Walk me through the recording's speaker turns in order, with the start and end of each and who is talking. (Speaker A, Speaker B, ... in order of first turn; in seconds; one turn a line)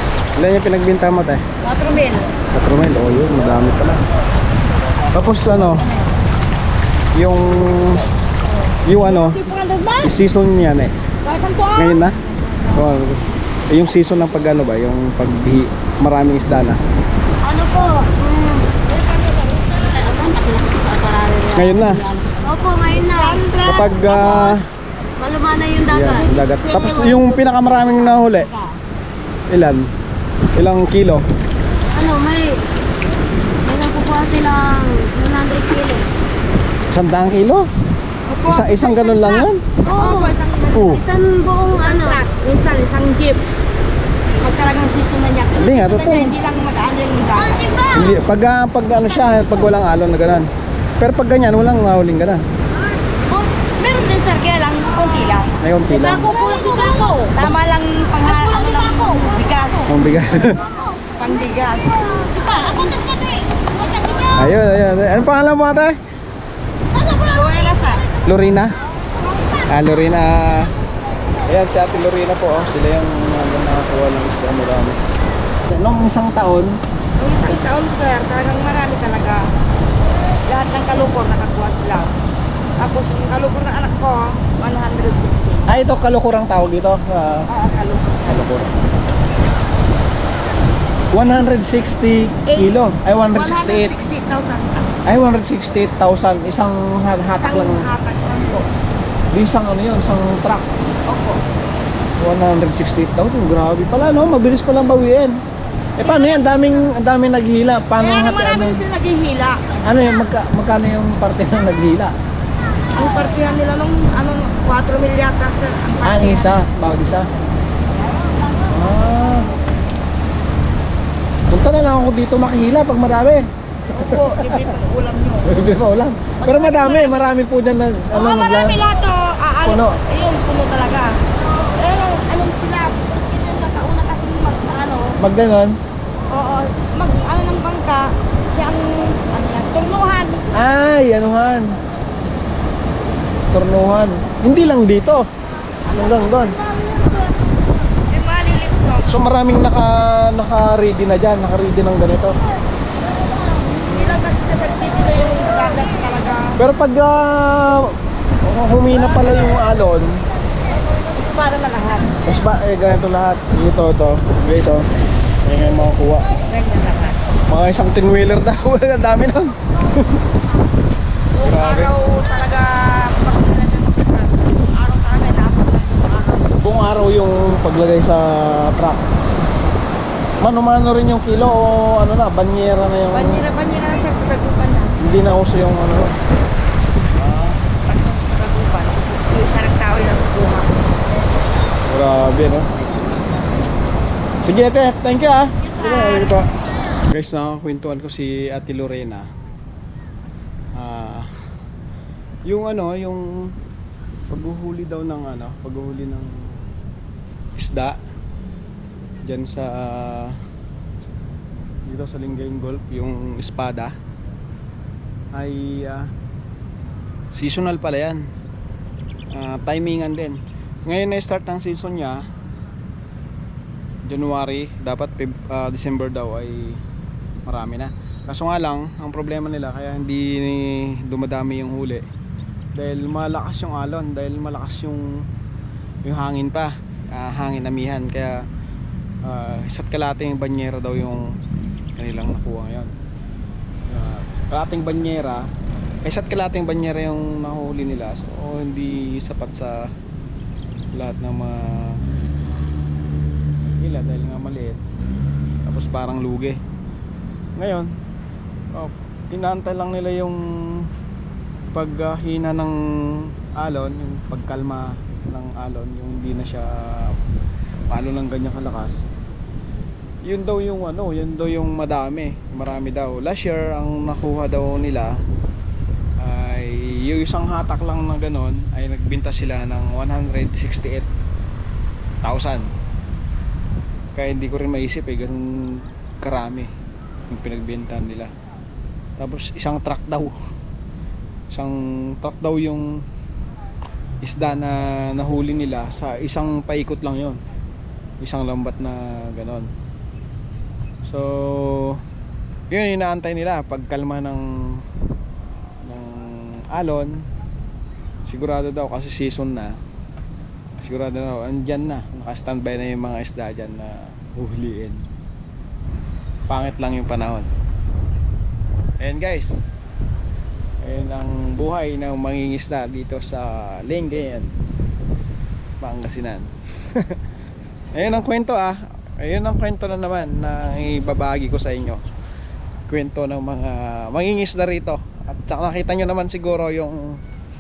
Speaker A: 0.4-1.4
Speaker B: 1.6-2.3
Speaker A: 2.5-4.0
Speaker A: 5.1-5.9
Speaker A: 7.2-8.0
Speaker A: 8.9-9.4
Speaker B: 8.9-10.1
Speaker A: 10.0-10.9
Speaker B: 11.2-12.1
Speaker A: 11.7-12.2
Speaker A: 12.7-16.8
Speaker B: 17.4-18.5
Speaker C: 18.2-18.6
Speaker B: 19.0-24.6
Speaker A: 21.5-22.1
Speaker C: 22.4-23.5
Speaker A: 23.6-24.6
Speaker C: 25.2-26.3
Speaker A: 25.9-28.5
Speaker B: 26.2-27.2
Speaker A: 29.5-29.9
Speaker A: 30.6-31.2
Speaker C: 31.9-32.6
Speaker C: 33.6-36.1
Speaker A: 36.9-37.7
Speaker B: 38.3-41.1
Speaker A: 38.5-39.6
Speaker C: 39.9-40.3
Speaker A: 40.8-41.0
Speaker C: 40.8-42.2
Speaker B: 41.6-43.4
Speaker B: 44.4-47.8
Speaker A: 45.5-46.3
Speaker A: 47.9-50.5
Speaker A: 51.0-52.4
Speaker B: 53.3-55.5
Speaker A: 55.6-56.3
Speaker B: 56.2-59.9
Speaker A: 59.9-60.6
Speaker B: 61.2-62.1
Speaker A: 64.4-66.0
Speaker B: 67.2-68.1
Speaker A: 68.2-68.7
Speaker A: 69.7-70.7
Speaker A: 71.5-75.0
Speaker A: 75.7-76.7
Speaker B: 77.2-79.4
Speaker B: 80.5-82.1
Speaker B: 82.8-85.7
Speaker A: 85.7-87.5
Speaker B: 87.5-88.5
Speaker A: 88.3-88.7
Speaker A: 91.1-93.9
Speaker B: 93.3-94.9
Speaker A: 95.0-97.9
Speaker B: 97.3-98.7
Speaker A: 99.3-100.7
Speaker B: 101.1-101.4
Speaker A: 102.2-105.3
Speaker A: 106.0-108.8
Speaker B: 106.0-106.7
Speaker B: 108.0-109.6
Speaker A: 109.9-112.1
Speaker B: 113.0-116.7
Speaker A: 116.0-117.3
Speaker A: 118.7-119.5
Speaker A: 121.5-123.5
Speaker B: 123.9-125.7
Speaker A: 124.1-124.7
Speaker A: 125.5-128.8
Speaker B: 126.4-127.2
Speaker B: 128.1-131.2
Speaker A: 129.6-130.0
Speaker B: 131.8-135.2
Speaker A: 135.2-135.8
Speaker B: 136.3-140.5
Speaker A: 140.5-141.8
Speaker A: 143.5-145.2
Speaker B: 145.9-146.5
Speaker A: 145.9-146.6
Speaker B: 148.1-149.1
Speaker A: 149.1-152.3
Speaker B: 153.7-156.6
Speaker A: 156.6-157.9
Speaker A: 158.4-160.2
Speaker B: 161.2-162.1
Speaker A: 162.2-164.8
Speaker A: 165.4-166.3
Speaker B: 166.5-167.3
Speaker A: 167.5-169.6
Speaker B: 171.3-176.5
Speaker A: 171.4-171.9
Speaker A: 176.6-179.0
Speaker A: 180.4-183.4
Speaker B: 183.1-185.0
Speaker A: 185.0-186.2
Speaker A: 187.2-187.5
Speaker B: 187.7-190.7
Speaker A: 191.9-192.7
Speaker A: 194.4-196.5
Speaker B: 195.6-196.4
Speaker A: 197.1-199.3
Speaker A: 200.7-201.3
Speaker A: 202.5-203.5
Speaker A: 204.3-206.4
Speaker A: 207.6-208.0
Speaker A: 209.2-210.4
Speaker A: 211.9-213.9
Speaker A: 215.3-216.1
Speaker A: 217.3-218.2
Speaker A: 219.3-222.2
Speaker A: 224.1-226.8
Speaker A: 227.5-232.1
Speaker A: 232.8-235.3
Speaker A: 236.0-238.4
Speaker A: 239.2-241.2
Speaker A: 242.0-242.9
Speaker A: 243.9-245.5
Speaker A: 246.0-249.9
Speaker A: 250.9-252.0
Speaker A: 253.8-254.8
Speaker A: 255.7-256.6
Speaker A: 257.6-257.9
Speaker A: 258.7-260.9
Speaker A: 261.7-262.8
Speaker A: 263.6-267.2
Speaker A: 267.9-269.1
Speaker A: 270.2-275.1
Speaker A: 276.2-281.1
Speaker A: 282.2-282.7
Speaker A: 284.1-286.7
Speaker A: 287.3-288.3
Speaker A: 289.2-290.3
Speaker A: 291.5-292.9
Speaker A: 294.2-297.4
Speaker A: 298.2-299.7
Speaker A: 301.1-302.0
Speaker A: 302.7-304.5
Speaker A: 305.9-307.1
Speaker A: 308.3-309.8
Speaker A: 310.8-315.0
Speaker A: 316.5-317.5
Speaker A: 319.0-319.6
Speaker A: 320.8-324.5
Speaker A: 325.8-327.1
Speaker A: 327.9-332.0
Speaker A: 332.9-337.0